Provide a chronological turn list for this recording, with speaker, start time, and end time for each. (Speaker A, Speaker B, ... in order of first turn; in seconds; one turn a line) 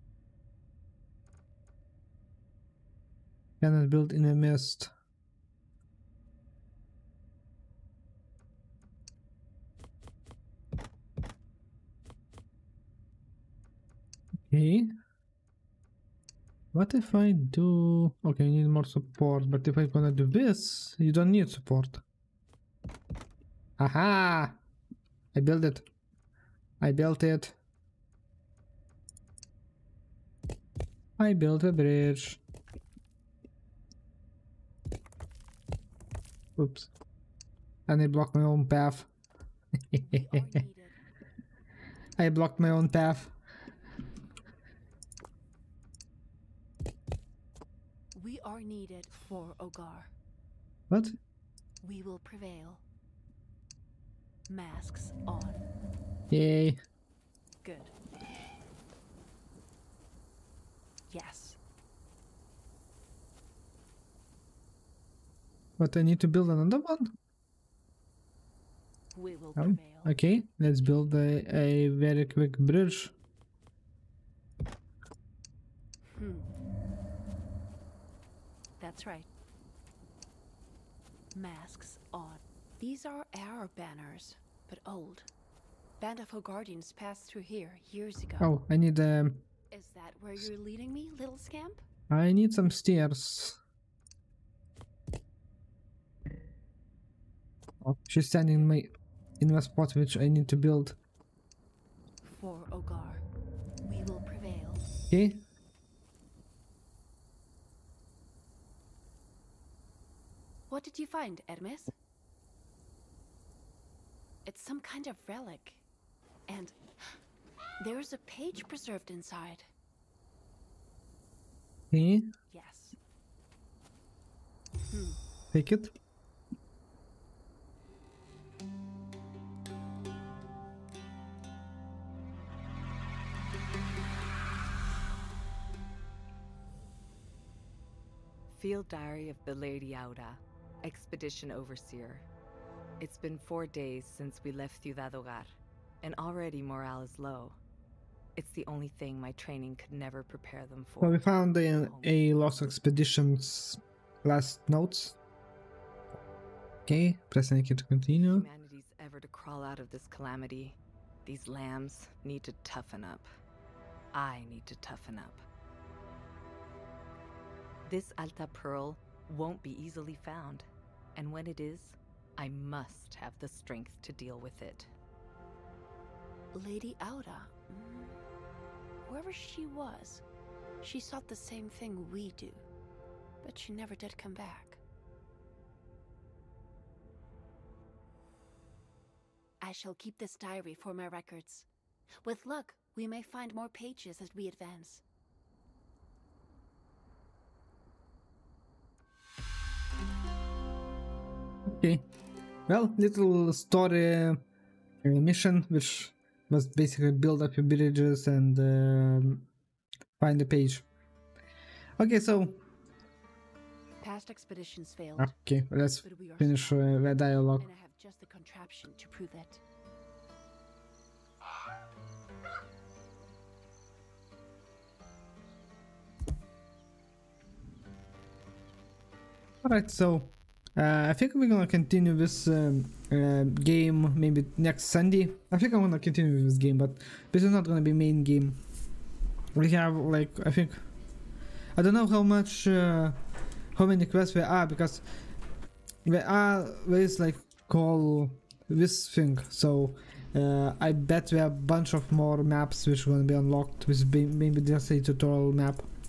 Speaker A: 3.6-4.9
Speaker A: 14.5-14.9
Speaker A: 16.7-22.0
Speaker A: 23.8-24.6
Speaker A: 25.3-25.9
Speaker A: 26.8-27.6
Speaker A: 31.2-32.4
Speaker A: 36.6-36.9
Speaker A: 37.9-39.1
Speaker A: 39.9-40.4
Speaker B: 40.0-41.0
Speaker A: 42.2-43.3
Speaker B: 48.1-50.1
Speaker A: 50.9-51.1
Speaker B: 51.8-52.8
Speaker B: 54.5-55.6
Speaker A: 56.3-56.8
Speaker B: 57.6-57.9
Speaker B: 61.1-61.6
Speaker A: 65.8-67.1
Speaker B: 69.1-70.2
Speaker A: 69.6-73.1
Speaker B: 76.1-76.5
Speaker B: 78.8-79.3
Speaker B: 81.3-85.3
Speaker B: 86.0-88.5
Speaker A: 88.4-89.4
Speaker B: 89.7-91.8
Speaker A: 92.1-93.6
Speaker A: 97.8-101.0
Speaker B: 102.2-103.2
Speaker B: 103.8-104.9
Speaker A: 105.1-105.4
Speaker B: 110.7-111.9
Speaker B: 114.5-115.8
Speaker B: 116.5-117.1
Speaker B: 117.8-119.7
Speaker A: 121.9-122.3
Speaker B: 122.5-123.0
Speaker B: 124.9-125.2
Speaker A: 125.5-125.9
Speaker C: 138.5-142.2
Speaker C: 143.0-147.6
Speaker C: 148.3-152.2
Speaker A: 151.0-155.2
Speaker A: 156.8-158.5
Speaker C: 158.1-163.3
Speaker C: 164.1-165.4
Speaker C: 167.8-174.9
Speaker B: 176.5-178.2
Speaker B: 179.1-180.2
Speaker B: 180.8-182.6
Speaker B: 183.4-184.8
Speaker B: 189.6-191.7
Speaker B: 192.2-195.0
Speaker A: 201.7-202.1
Speaker A: 202.7-204.4
Speaker A: 205.0-209.5
Speaker A: 210.2-210.9
Speaker A: 212.0-212.6
Speaker B: 214.0-215.4
Speaker A: 215.2-217.7
Speaker B: 216.0-219.6
Speaker A: 229.6-238.6
Speaker A: 239.5-240.8
Speaker A: 241.8-243.2
Speaker A: 243.7-245.1
Speaker A: 246.0-255.9